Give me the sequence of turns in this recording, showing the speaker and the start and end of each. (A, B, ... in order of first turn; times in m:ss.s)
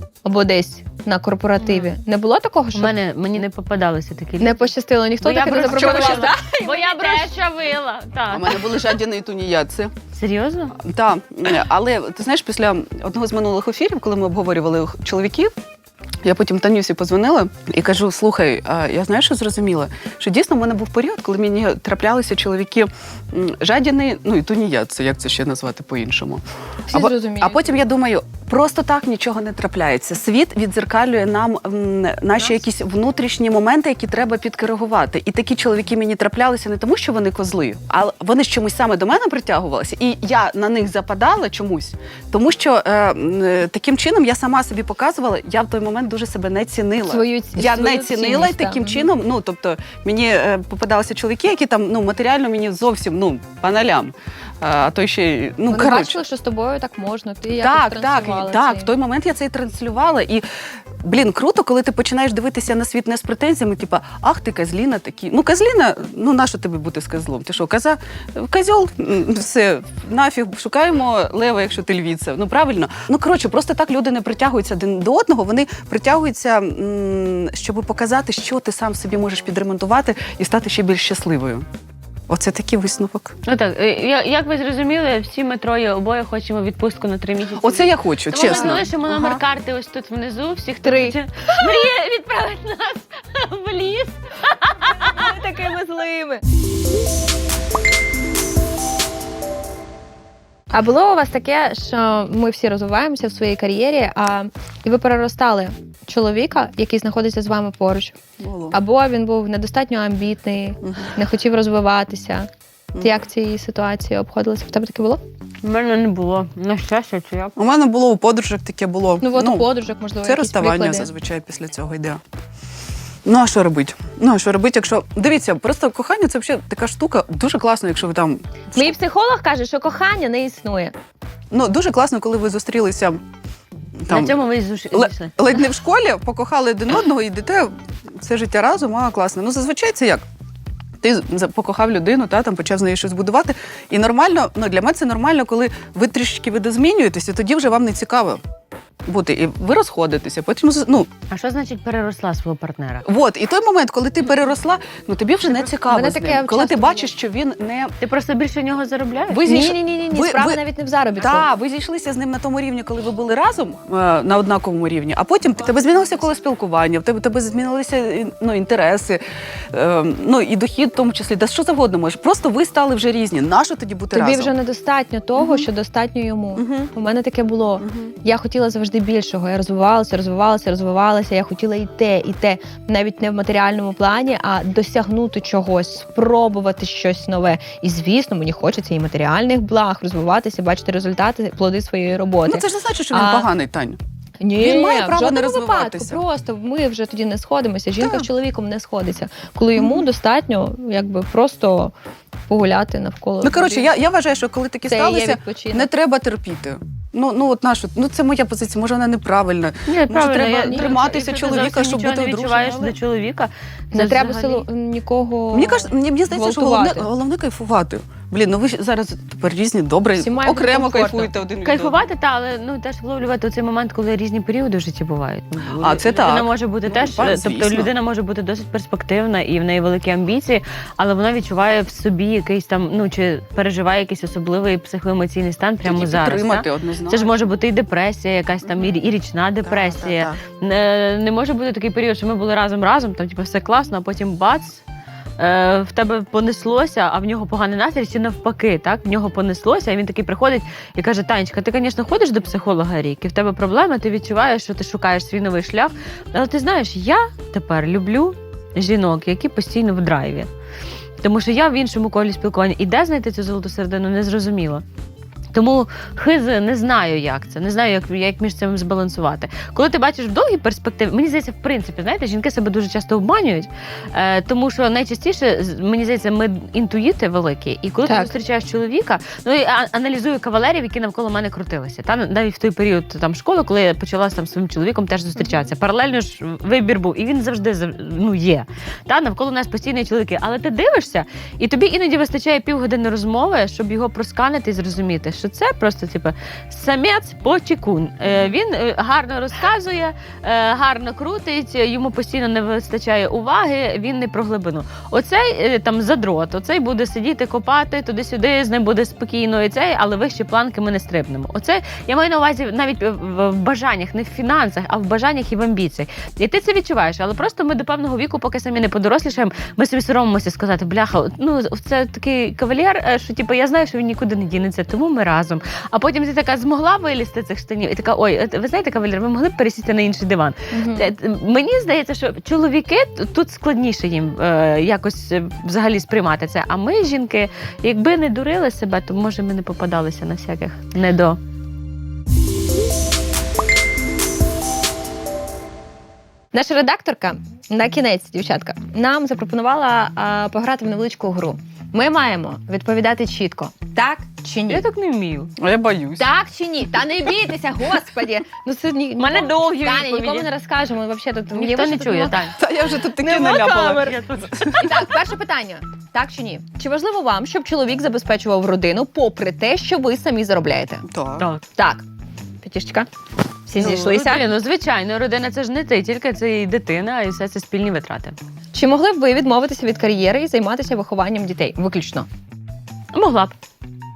0:00.2-0:02.9 A
0:01.6-0:01.9 B
0:02.7-0:08.6 B
0:04.4-0:07.3 A
0:05.8-0:06.3 C
0:08.3-0:09.9 C
0:10.1-0:10.8 B
0:10.8-0:15.5 C
0:16.2-0:56.2 C
0:26.9-0:27.7 A
0:47.0-0:49.0 A
0:55.7-0:58.9 A
0:57.6-1:00.4 C
1:01.0-1:21.7 C
1:22.3-1:23.4 C
1:23.4-1:35.4 B
1:27.6-1:29.3 C
1:28.3-1:29.4 A
1:30.8-1:31.8 A
1:35.0-1:36.4 A
1:40.7-1:48.2 A
1:48.4-1:48.7 C
1:48.7-1:52.5 A
1:50.8-1:51.1 C
1:53.0-1:55.2 A
1:55.6-1:57.5 B
1:57.6-1:59.7 C
1:59.2-2:01.1 A
2:00.2-2:02.2 C
2:03.2-2:08.9 C
2:08.7-2:10.9 A
2:11.5-2:13.2 C
2:14.0-2:14.4 C
2:14.1-2:15.5 B
2:14.9-2:20.2 C
2:21.0-2:28.4 C
2:29.0-2:31.1 C
2:31.3-2:33.0 B
2:33.0-2:37.9 C
2:35.5-2:37.1 A
2:38.0-2:39.5 B
2:39.3-2:41.4 A
2:39.4-2:40.6 C
2:41.2-2:49.2 C
2:49.7-2:54.5 C
2:54.1-3:13.5 A
2:55.4-2:55.7 C
2:56.6-2:56.9 C
2:57.8-2:58.1 C
3:12.4-3:14.0 C
3:14.4-3:21.9 A
3:14.6-3:16.2 C
3:18.0-3:18.3 C
3:19.8-3:20.0 C
3:22.5-3:23.9 A
3:23.4-3:33.0 C
3:24.8-3:25.9 A
3:29.9-3:34.6 B
3:33.9-3:37.1 A
3:35.5-3:42.0 C
3:40.2-3:41.3 A
3:41.6-4:04.8 B
3:45.8-3:47.9 C
3:55.8-3:57.5 C
3:59.6-4:00.4 C
4:05.4-4:20.5 B
4:21.2-4:24.8 B
4:25.5-5:41.4 B
4:38.0-4:38.3 A
5:30.7-5:31.1 A
5:46.5-5:54.8 A
5:54.7-5:55.5 B
5:55.6-5:56.2 C
5:56.2-6:02.5 A
5:59.2-6:00.5 B
6:01.5-6:02.6 B
6:02.6-6:05.0 C
6:03.2-6:04.2 A
6:03.8-6:05.1 B
6:04.8-6:11.0 A
6:11.1-6:11.5 C
6:11.7-6:12.0 A
6:12.6-6:13.1 A
6:13.7-6:14.5 A
6:13.8-6:18.4 B
6:18.7-6:22.2 A
6:23.1-6:23.5 B